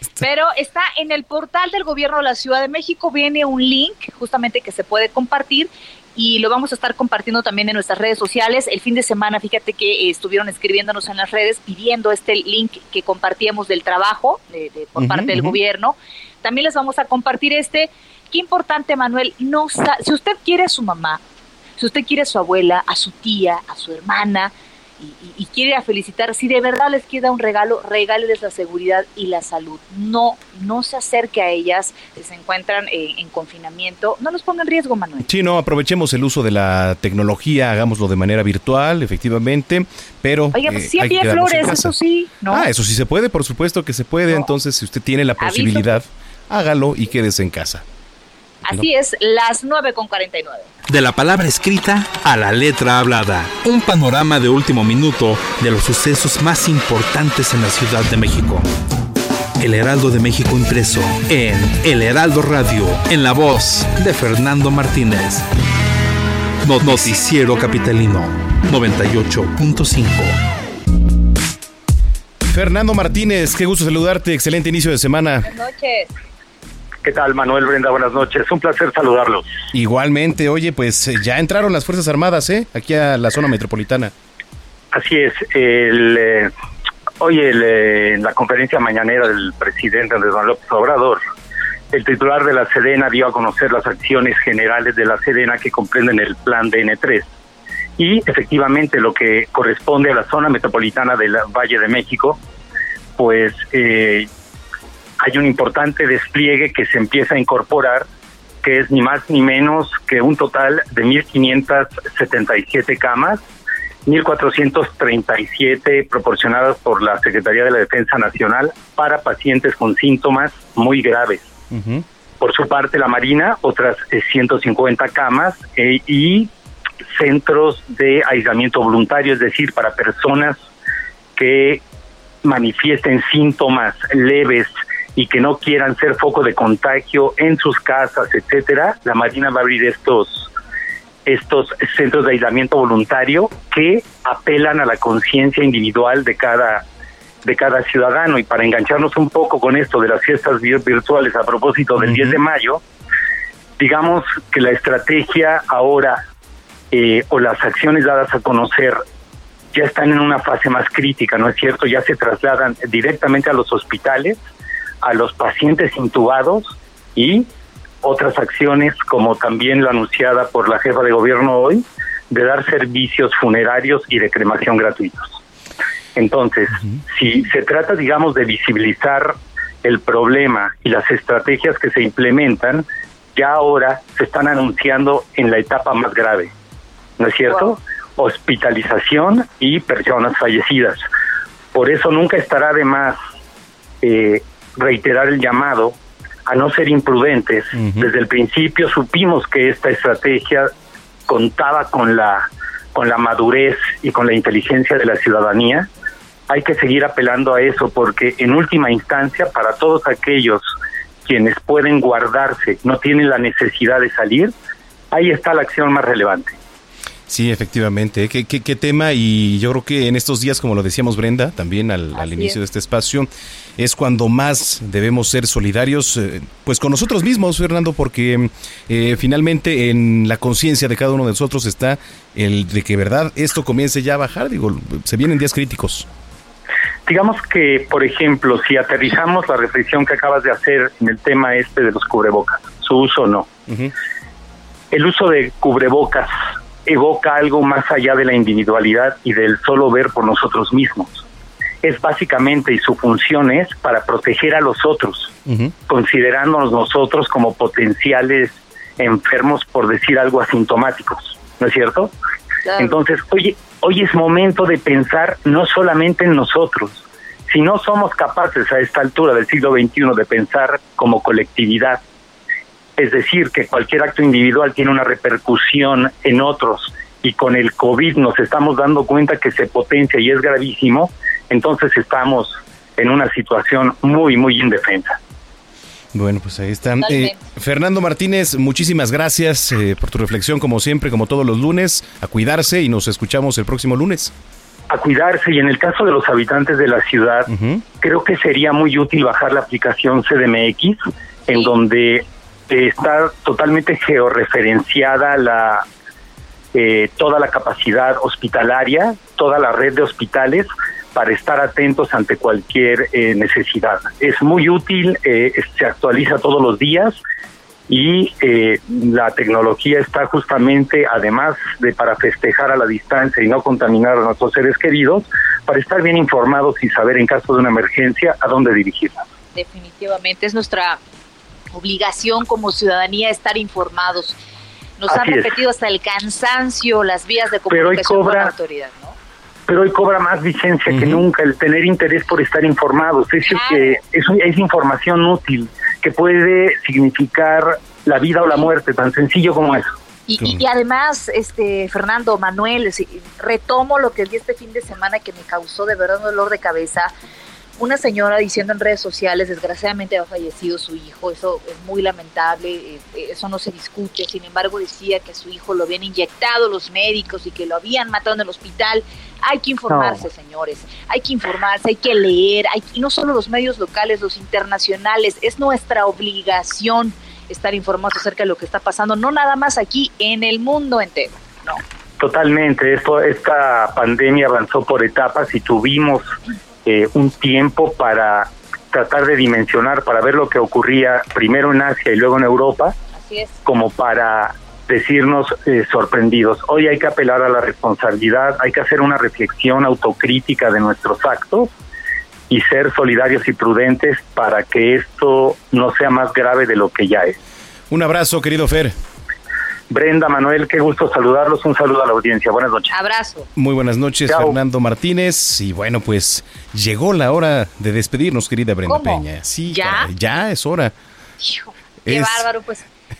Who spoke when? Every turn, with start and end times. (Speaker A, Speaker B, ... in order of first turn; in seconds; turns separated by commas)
Speaker A: 0.2-21.2, Speaker B: 15.0-15.6, Speaker A: 21.8-35.3, Speaker B: 35.2-41.9, Speaker A: 40.5-42.7, Speaker B: 42.5-47.8, Speaker A: 45.4-45.9, Speaker A: 48.6-50.7, Speaker C: 50.9-58.7, Speaker C: 59.6-65.4, Speaker C: 66.6-70.4, Speaker B: 72.5-75.5, Speaker A: 75.4-76.1, Speaker D: 77.0-79.5, Speaker B: 79.7-84.1, Speaker D: 84.9-86.5, Speaker D: 87.2-91.2, Speaker D: 91.9-97.3, Speaker D: 98.0-102.4, Speaker D: 103.2-104.3, Speaker D: 105.2-108.1, Speaker D: 108.6-113.4, Speaker D: 114.1-121.5, Speaker B: 121.7-122.0, Speaker D: 122.4-126.5, Speaker D: 127.1-130.6, Speaker D: 131.4-131.8, Speaker D: 132.4-140.5, Speaker D: 141.3-146.8, Speaker D: 147.4-152.8, Speaker B: 152.0-152.4, Speaker D: 153.8-156.2, Speaker D: 156.9-159.0, Speaker D: 159.7-164.4, Speaker D: 165.0-167.5, Speaker D: 168.0-175.4, Speaker D: 176.2-186.5, Speaker D: 187.2-191.1, Speaker D: 191.7-193.2, Speaker D: 194.0-200.7, Speaker B: 197.8-198.1, Speaker D: 201.3-205.9, Speaker D: 206.5-210.7, Speaker D: 211.2-214.5, Speaker D: 215.1-216.6, Speaker B: 217.3-236.1, Speaker A: 222.1-222.6, Speaker D: 237.1-243.5, Speaker D: 244.9-246.3, Speaker D: 246.9-251.2, Speaker D: 251.8-255.3, Speaker B: 255.5-255.7, Speaker D: 255.9-262.1, Speaker A: 262.6-263.0, Speaker D: 262.8-272.0, Speaker D: 273.0-285.2, Speaker B: 286.1-294.3, Speaker A: 287.0-287.4, Speaker D: 294.9-297.5, Speaker B: 297.5-297.9, Speaker D: 298.0-305.9, Speaker D: 306.7-317.2, Speaker D: 317.9-329.3, Speaker A: 329.6-331.0, Speaker A: 331.7-334.4, Speaker A: 335.0-339.1, Speaker D: 335.1-335.5, Speaker D: 337.7-338.5, Speaker D: 339.7-349.9, Speaker B: 340.9-341.2, Speaker A: 343.5-344.0, Speaker A: 350.3-357.1, Speaker A: 357.8-381.8, Speaker D: 382.2-386.3, Speaker D: 386.9-392.9, Speaker A: 393.1-393.5, Speaker D: 393.6-401.7, Speaker D: 402.5-407.4, Speaker B: 407.9-408.9, Speaker D: 409.9-412.9, Speaker A: 412.9-413.5, Speaker B: 413.6-420.9, Speaker D: 414.3-414.6, Speaker A: 418.9-420.1, Speaker A: 421.4-422.9, Speaker B: 422.1-422.5